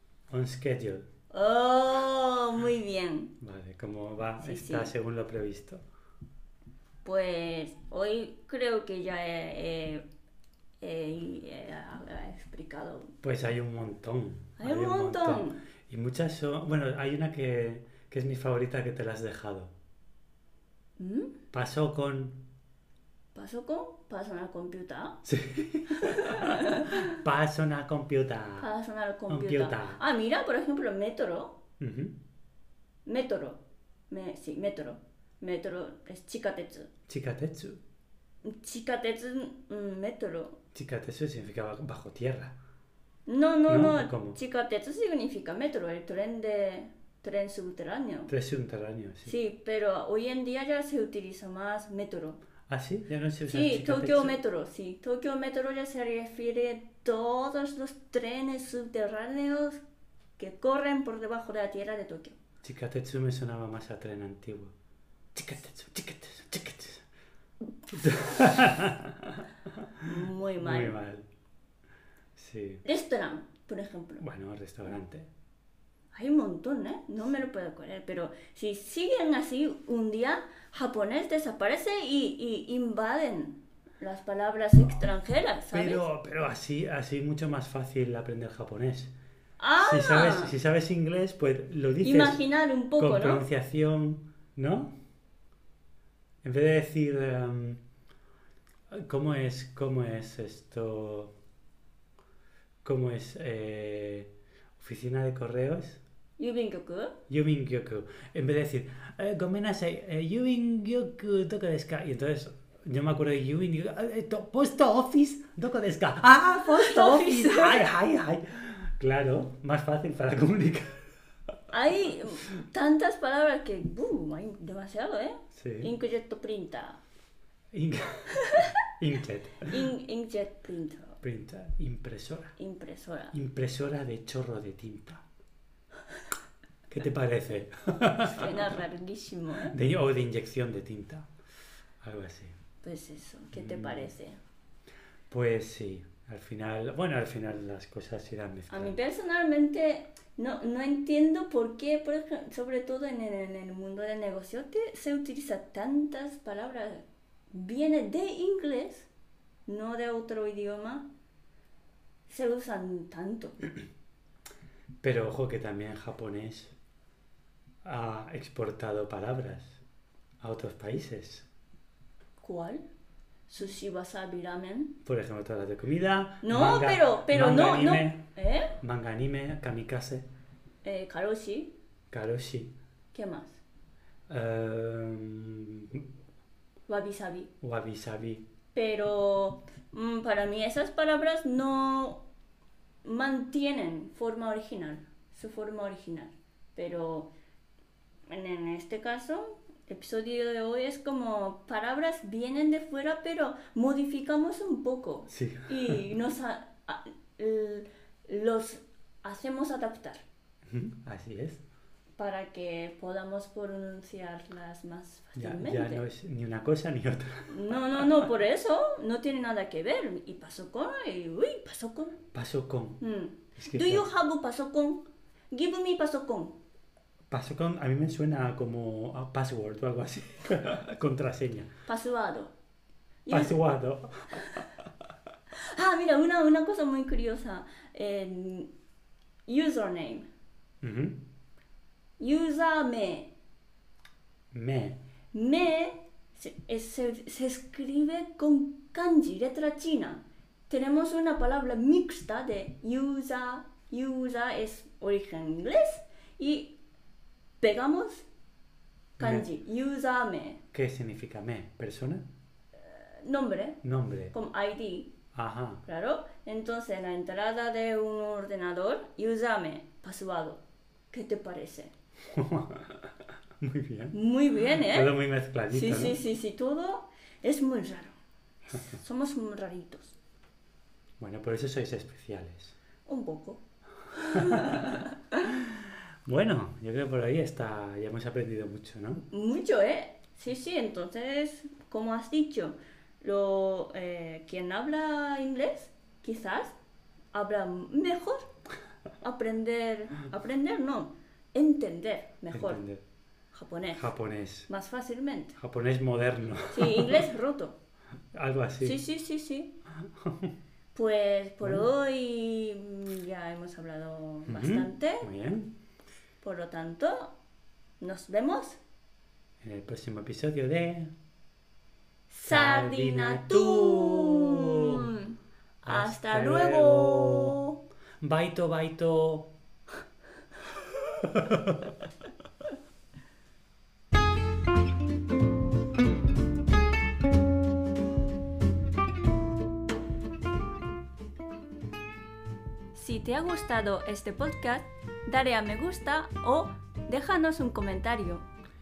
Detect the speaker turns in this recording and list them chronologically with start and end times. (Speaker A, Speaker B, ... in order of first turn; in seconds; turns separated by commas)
Speaker A: 0.3-1.1, Speaker B: 1.3-3.3, Speaker A: 3.4-5.8, Speaker B: 4.4-4.9, Speaker B: 7.0-10.1, Speaker B: 10.8-13.1, Speaker A: 13.2-19.7, Speaker B: 14.6-15.6, Speaker B: 21.0-21.4, Speaker A: 21.5-22.4, Speaker B: 23.4-25.2, Speaker A: 25.2-28.7, Speaker B: 25.9-27.2, Speaker B: 28.6-31.6, Speaker A: 29.3-30.0, Speaker A: 31.8-32.2, Speaker B: 33.1-36.9, Speaker A: 37.1-37.8, Speaker B: 38.5-40.6, Speaker A: 40.7-42.5, Speaker B: 43.3-48.3, Speaker A: 43.7-44.4, Speaker A: 48.3-49.4, Speaker B: 49.3-52.4, Speaker A: 52.7-54.4, Speaker B: 53.5-59.8, Speaker B: 60.4-62.4, Speaker A: 62.6-64.7, Speaker A: 65.3-67.1, Speaker A: 67.9-71.3, Speaker B: 70.0-71.0, Speaker A: 72.4-72.8, Speaker B: 72.8-74.2, Speaker A: 74.2-75.3, Speaker B: 76.1-86.0, Speaker A: 85.7-89.1, Speaker B: 89.6-90.5, Speaker A: 89.8-92.4, Speaker B: 92.0-93.5, Speaker A: 93.0-94.9, Speaker A: 96.4-97.8, Speaker A: 98.9-101.3, Speaker A: 102.8-106.0, Speaker B: 106.4-107.2, Speaker A: 107.3-121.0, Speaker B: 116.6-117.9, Speaker B: 121.7-127.0, Speaker A: 125.5-125.9, Speaker A: 127.7-129.9, Speaker B: 128.3-128.8, Speaker B: 129.7-131.2, Speaker A: 131.2-132.5, Speaker B: 132.6-133.3, Speaker A: 133.3-135.2, Speaker A: 136.9-138.8, Speaker B: 138.2-139.8, Speaker A: 139.7-141.3, Speaker A: 142.0-142.6, Speaker B: 142.8-144.4, Speaker A: 143.5-144.1, Speaker A: 145.3-149.0, Speaker B: 148.7-159.1, Speaker B: 159.7-161.1, Speaker B: 162.3-163.6, Speaker A: 165.0-166.7, Speaker A: 167.8-169.8, Speaker A: 170.4-171.5, Speaker B: 172.4-172.8, Speaker B: 173.5-175.0, Speaker A: 175.0-178.3, Speaker B: 176.4-178.8, Speaker A: 178.8-180.3, Speaker B: 180.8-181.7, Speaker A: 182.1-182.8, Speaker B: 183.1-183.6, Speaker A: 184.3-186.1, Speaker B: 186.9-187.5, Speaker A: 187.6-188.4, Speaker B: 188.8-192.2, Speaker B: 193.0-197.3, Speaker B: 198.3-210.2, Speaker A: 205.3-206.0, Speaker A: 210.7-211.6, Speaker B: 212.2-216.0, Speaker A: 215.4-218.3, Speaker B: 217.5-222.2, Speaker A: 222.3-223.0, Speaker B: 223.0-226.6, Speaker A: 223.6-224.1, Speaker A: 227.3-231.7, Speaker B: 231.9-232.5, Speaker B: 233.3-233.7, Speaker A: 233.3-234.4, Speaker B: 235.5-238.7, Speaker B: 239.5-240.3, Speaker A: 240.8-241.2, Speaker B: 242.2-243.3, Speaker A: 244.5-245.0, Speaker B: 245.3-256.8, Speaker B: 257.6-258.3, Speaker A: 259.2-259.5, Speaker B: 259.2-260.6, Speaker A: 260.7-262.2, Speaker B: 262.9-263.8, Speaker A: 263.8-264.4, Speaker B: 264.3-265.1, Speaker A: 265.3-265.8, Speaker B: 265.9-271.9, Speaker A: 272.3-274.1, Speaker B: 274.1-275.1, Speaker A: 274.7-276.2, Speaker B: 275.7-278.2, Speaker B: 278.7-280.2, Speaker A: 281.2-282.8, Speaker B: 283.1-285.5, Speaker A: 284.2-289.3, Speaker B: 289.3-296.8, Speaker B: 297.3-298.5, Speaker B: 299.2-302.8, Speaker A: 302.5-303.0, Speaker B: 303.5-304.1, Speaker A: 303.9-304.7, Speaker B: 304.7-305.6, Speaker A: 305.6-307.2, Speaker B: 306.7-307.8, Speaker A: 308.3-309.0, Speaker B: 308.8-309.7, Speaker A: 310.2-310.5, Speaker B: 310.9-315.3, Speaker A: 311.6-311.9, Speaker A: 314.5-315.7, Speaker B: 316.4-317.3, Speaker B: 318.0-318.8, Speaker A: 319.6-321.1, Speaker B: 322.3-327.8, Speaker A: 322.5-325.1, Speaker A: 325.8-327.6, Speaker A: 328.2-329.5, Speaker A: 330.7-332.0, Speaker B: 342.9-348.4